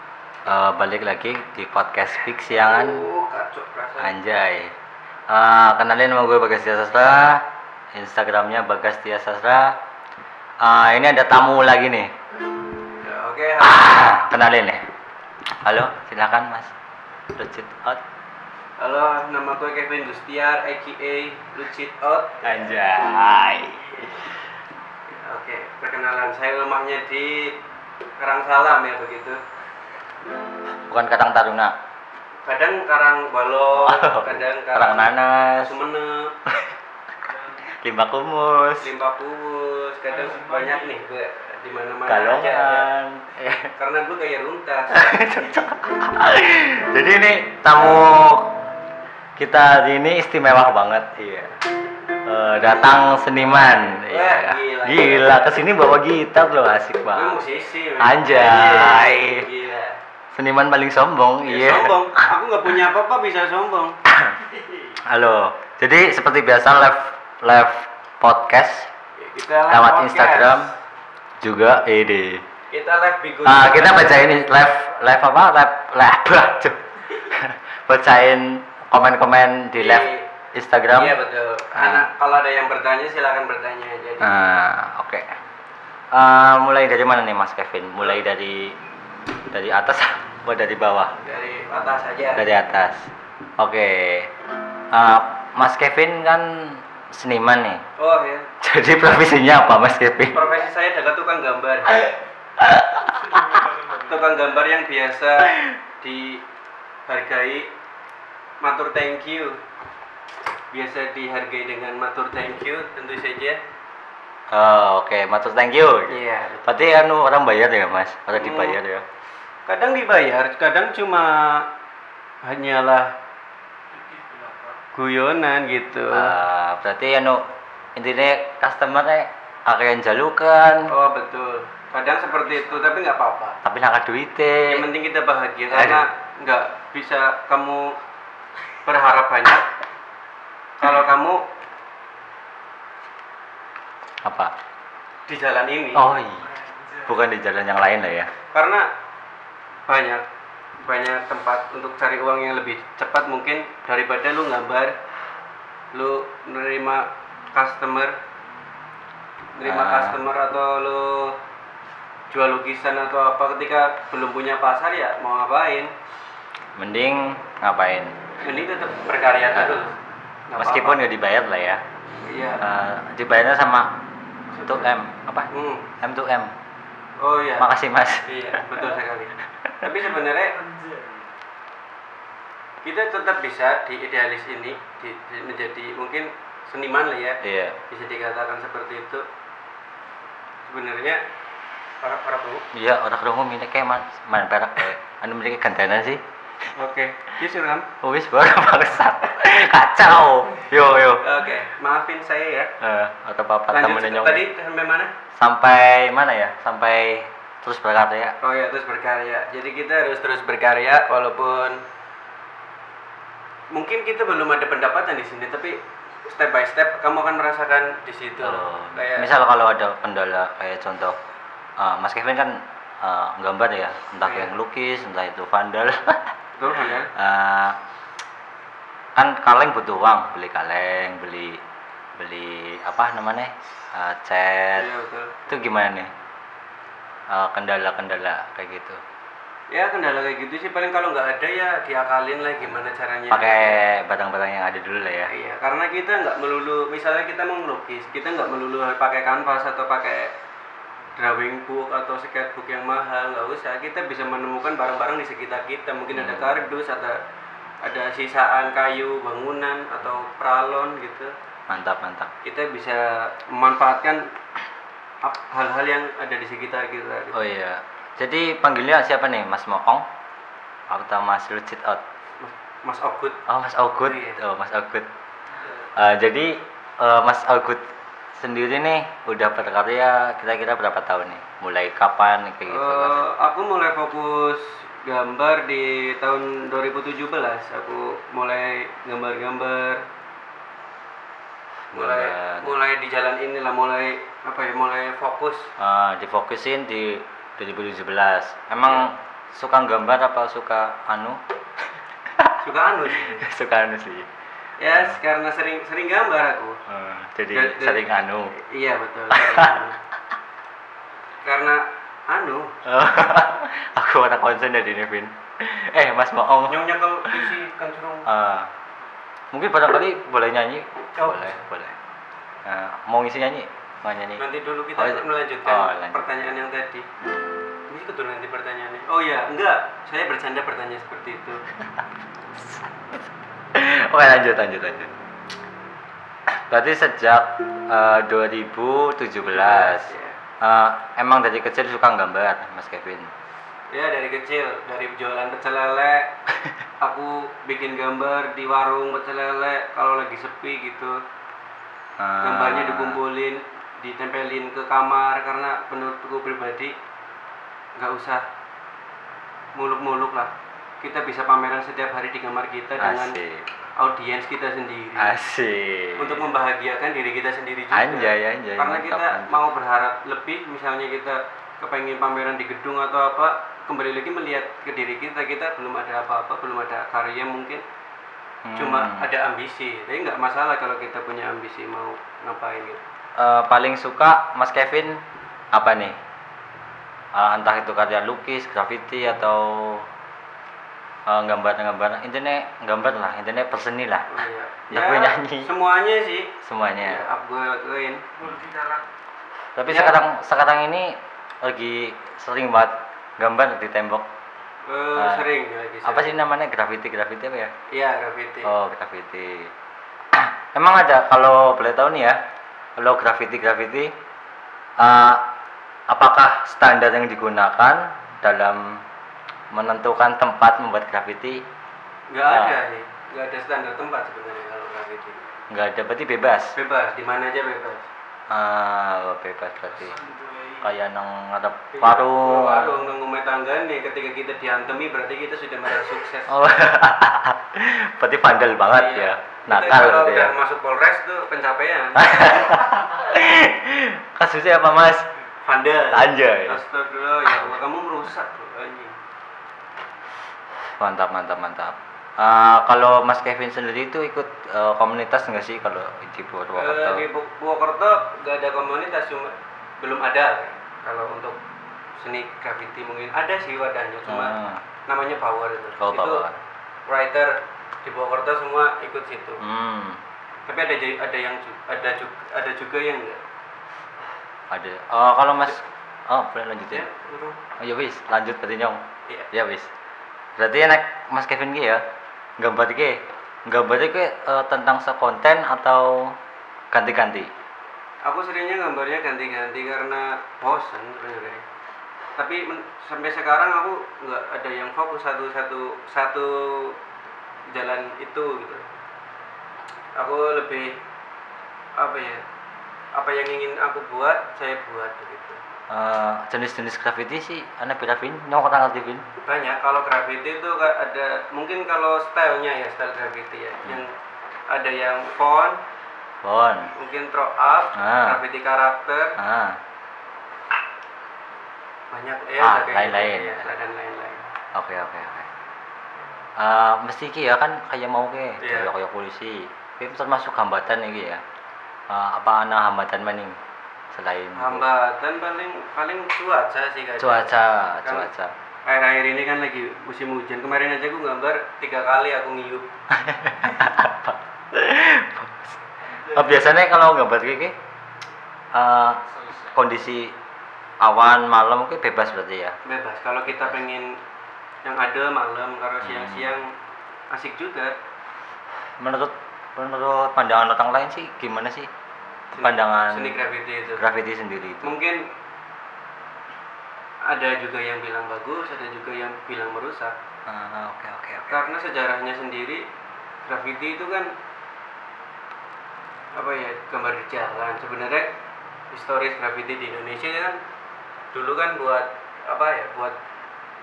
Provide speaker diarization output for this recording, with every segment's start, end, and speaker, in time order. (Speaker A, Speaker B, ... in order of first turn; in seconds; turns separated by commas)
Speaker A: 0.4-3.0, Speaker B: 2.5-4.2, Speaker A: 4.0-4.7, Speaker A: 5.3-7.4, Speaker A: 7.9-9.7, Speaker A: 10.6-12.1, Speaker B: 13.0-14.1, Speaker A: 13.6-14.9, Speaker A: 15.6-16.7, Speaker A: 17.3-18.0, Speaker B: 18.8-22.7, Speaker A: 22.4-24.4, Speaker B: 25.1-27.6, Speaker B: 28.2-29.4, Speaker A: 30.9-31.7, Speaker B: 32.4-36.4, Speaker A: 33.8-35.7, Speaker A: 37.6-38.9, Speaker B: 38.8-42.9, Speaker A: 42.0-43.7, Speaker B: 43.8-45.4, Speaker A: 44.9-48.6, Speaker A: 49.4-51.5, Speaker A: 52.1-57.4, Speaker B: 53.9-55.4, Speaker B: 57.1-60.0, Speaker A: 58.0-59.5, Speaker A: 60.3-62.2, Speaker B: 61.4-64.0, Speaker A: 64.1-64.4, Speaker B: 64.5-64.8, Speaker A: 65.0-68.9, Speaker B: 69.2-70.7, Speaker A: 69.7-70.7, Speaker A: 71.4-72.4, Speaker B: 72.7-74.2, Speaker A: 73.4-81.2, Speaker B: 79.7-80.3, Speaker B: 80.9-84.6, Speaker A: 81.8-82.0, Speaker A: 84.2-85.3, Speaker A: 86.1-88.7, Speaker A: 89.5-91.1, Speaker B: 91.2-92.5, Speaker A: 92.3-94.3, Speaker A: 94.9-97.8, Speaker B: 98.0-98.5, Speaker A: 98.6-100.4, Speaker B: 100.3-102.1, Speaker A: 102.6-103.7, Speaker B: 103.8-106.5, Speaker B: 107.1-107.7, Speaker B: 108.6-109.6, Speaker B: 110.7-113.6, Speaker A: 114.5-119.0, Speaker B: 116.1-116.9, Speaker B: 118.3-118.8, Speaker B: 119.7-121.7, Speaker B: 122.4-123.1, Speaker B: 124.9-126.4, Speaker A: 126.1-127.4, Speaker A: 128.0-130.9, Speaker B: 130.9-133.6, Speaker A: 133.6-134.8, Speaker B: 134.7-138.0, Speaker A: 135.7-136.0, Speaker B: 138.8-139.7, Speaker B: 140.8-141.4, Speaker A: 144.2-144.5, Speaker B: 145.3-146.2, Speaker A: 145.9-148.3, Speaker B: 148.5-148.9, Speaker B: 149.9-150.2, Speaker B: 150.8-155.0, Speaker B: 155.9-158.1, Speaker B: 159.6-161.4, Speaker A: 159.6-160.2, Speaker B: 162.3-165.9, Speaker A: 166.8-168.1, Speaker B: 168.4-171.0, Speaker A: 170.6-171.8, Speaker B: 172.2-172.7, Speaker A: 172.6-173.9, Speaker B: 174.5-174.9, Speaker A: 174.6-176.5, Speaker B: 175.5-175.9, Speaker B: 177.2-177.7, Speaker A: 177.6-178.8, Speaker B: 178.2-180.8, Speaker A: 179.5-179.8, Speaker B: 182.8-189.2, Speaker A: 187.4-187.8, Speaker B: 190.7-191.2, Speaker B: 192.0-192.7, Speaker A: 192.7-196.2, Speaker B: 196.7-197.9, Speaker A: 198.0-201.2, Speaker B: 201.2-202.7, Speaker A: 202.8-204.4, Speaker B: 203.7-205.1, Speaker A: 205.3-208.4, Speaker B: 208.4-211.8, Speaker B: 213.7-219.3, Speaker A: 218.4-221.2, Speaker A: 221.8-226.3, Speaker B: 224.2-224.5, Speaker B: 226.6-227.1, Speaker A: 227.1-227.8, Speaker A: 229.2-231.6, Speaker A: 232.2-234.9, Speaker B: 234.8-235.4, Speaker A: 235.5-236.1, Speaker A: 237.3-239.0, Speaker B: 239.7-243.8, Speaker A: 242.7-245.3, Speaker B: 245.3-250.3, Speaker B: 251.2-257.2, Speaker A: 256.1-256.7, Speaker B: 257.8-261.3, Speaker A: 261.7-262.3, Speaker B: 262.4-264.3, Speaker B: 265.2-267.4, Speaker A: 267.3-270.1, Speaker A: 270.9-272.0, Speaker B: 272.4-273.4, Speaker A: 273.5-275.1, Speaker B: 274.0-274.4, Speaker A: 275.9-277.8, Speaker A: 278.3-283.3, Speaker B: 282.7-290.0, Speaker A: 291.9-292.8, Speaker B: 291.9-295.7, Speaker A: 295.8-301.4, Speaker B: 298.8-299.1, Speaker A: 302.3-302.6, Speaker B: 302.6-303.4, Speaker A: 303.2-304.3, Speaker B: 304.8-306.8, Speaker A: 304.9-305.2, Speaker A: 306.9-308.6, Speaker B: 307.5-310.0, Speaker A: 309.3-309.7, Speaker B: 311.4-312.8, Speaker A: 312.8-317.4, Speaker B: 316.7-318.3, Speaker A: 318.2-318.7, Speaker A: 319.5-321.9, Speaker B: 321.1-321.6, Speaker A: 322.6-324.4, Speaker B: 324.4-327.1, Speaker A: 325.0-326.2, Speaker B: 327.9-331.6, Speaker A: 332.6-333.2, Speaker A: 333.7-335.1, Speaker A: 336.5-343.3, Speaker B: 339.4-340.4, Speaker B: 343.9-346.3, Speaker B: 347.0-351.2, Speaker A: 352.2-353.2, Speaker B: 352.4-356.9, Speaker B: 357.9-358.4, Speaker B: 359.7-363.4, Speaker A: 363.0-363.7, Speaker B: 363.9-365.4, Speaker A: 365.2-366.5, Speaker B: 366.1-377.8, Speaker A: 367.9-369.6, Speaker A: 378.6-379.3, Speaker B: 378.8-383.0, Speaker A: 383.4-385.2, Speaker A: 385.7-386.1, Speaker A: 387.3-390.1, Speaker A: 391.3-394.3, Speaker B: 394.3-398.5, Speaker A: 394.9-395.7, Speaker A: 396.6-397.2, Speaker A: 398.4-398.8, Speaker A: 399.8-404.2, Speaker B: 399.9-400.2, Speaker B: 404.8-406.4, Speaker A: 405.1-405.4, Speaker A: 406.0-407.7, Speaker B: 407.9-408.7, Speaker A: 408.6-409.7, Speaker A: 410.3-412.4, Speaker A: 413.0-414.1, Speaker A: 415.0-415.4, Speaker A: 416.1-419.0, Speaker A: 419.7-421.6, Speaker B: 422.3-425.4, Speaker A: 422.5-422.8, Speaker A: 425.7-426.7, Speaker B: 426.8-428.1, Speaker A: 428.5-433.0, Speaker B: 431.9-436.9, Speaker A: 436.5-440.5, Speaker B: 438.9-442.8, Speaker A: 442.1-445.3, Speaker B: 445.6-449.1, Speaker A: 446.1-446.8, Speaker A: 451.0-457.3, Speaker B: 456.8-461.6, Speaker B: 462.2-466.4, Speaker A: 464.2-464.8, Speaker A: 466.0-466.6, Speaker B: 467.1-469.6, Speaker A: 469.6-470.2, Speaker B: 470.7-473.4, Speaker A: 474.7-477.1, Speaker B: 476.9-477.6, Speaker A: 477.8-479.9, Speaker A: 480.6-482.0, Speaker A: 482.6-486.4, Speaker A: 486.9-487.5, Speaker B: 488.2-491.6, Speaker B: 492.4-497.0, Speaker B: 497.7-498.9, Speaker B: 500.1-501.0, Speaker B: 502.0-502.4, Speaker B: 503.1-505.6, Speaker A: 505.9-509.2, Speaker B: 509.4-514.1, Speaker B: 514.7-515.8, Speaker A: 516.4-516.9, Speaker B: 516.9-519.4, Speaker A: 517.9-518.4, Speaker A: 519.4-519.8, Speaker B: 522.1-524.5, Speaker A: 522.6-523.7, Speaker A: 524.7-525.5, Speaker A: 526.6-531.4, Speaker B: 528.6-528.9, Speaker A: 532.1-533.6, Speaker A: 534.1-534.9, Speaker B: 534.5-538.3, Speaker A: 537.2-538.5, Speaker B: 538.9-542.9, Speaker A: 543.1-547.7, Speaker A: 548.7-550.3, Speaker A: 551.0-552.8, Speaker B: 552.8-554.2, Speaker A: 553.5-553.8, Speaker B: 554.8-556.7, Speaker A: 556.0-556.5, Speaker B: 557.3-557.9, Speaker A: 559.0-561.9, Speaker A: 562.5-563.4, Speaker B: 562.5-564.1, Speaker A: 563.9-565.0, Speaker B: 564.8-565.2, Speaker B: 567.2-570.1, Speaker A: 570.5-571.7, Speaker B: 571.5-572.9, Speaker B: 573.4-574.3, Speaker B: 576.3-578.3, Speaker B: 578.9-580.6, Speaker B: 581.3-583.2